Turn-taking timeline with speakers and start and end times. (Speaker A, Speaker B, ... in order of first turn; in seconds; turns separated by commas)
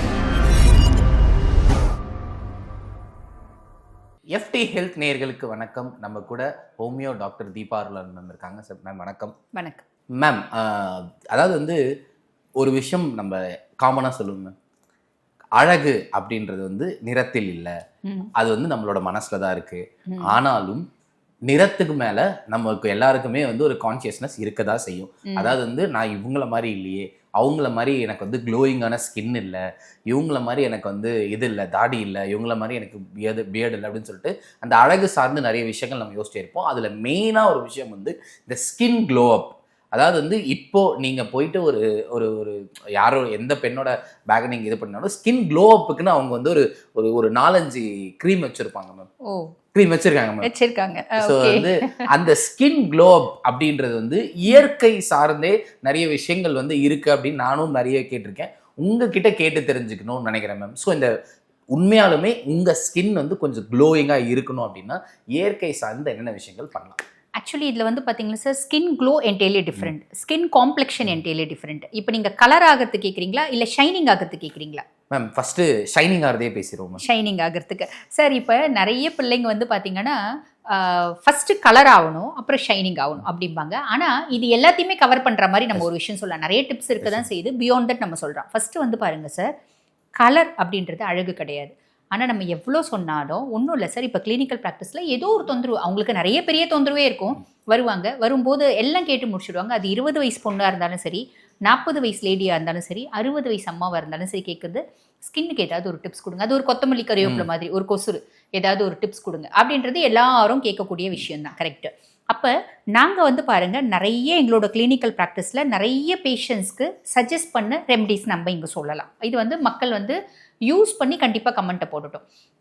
Speaker A: 4.3-9.3, Speaker B: 9.6-9.8, Speaker A: 10.2-11.8, Speaker A: 12.6-14.5, Speaker A: 15.6-17.7, Speaker A: 18.4-20.9, Speaker B: 20.1-20.4, Speaker A: 21.5-49.1, Speaker B: 25.3-25.6, Speaker B: 49.3-49.5, Speaker A: 49.7-50.5, Speaker B: 50.4-52.1, Speaker A: 51.2-61.1, Speaker A: 61.7-67.0, Speaker B: 67.4-74.8, Speaker A: 75.1-77.0, Speaker B: 77.0-80.2, Speaker B: 80.7-89.5, Speaker B: 90.2-120.2, Speaker B: 120.7-122.2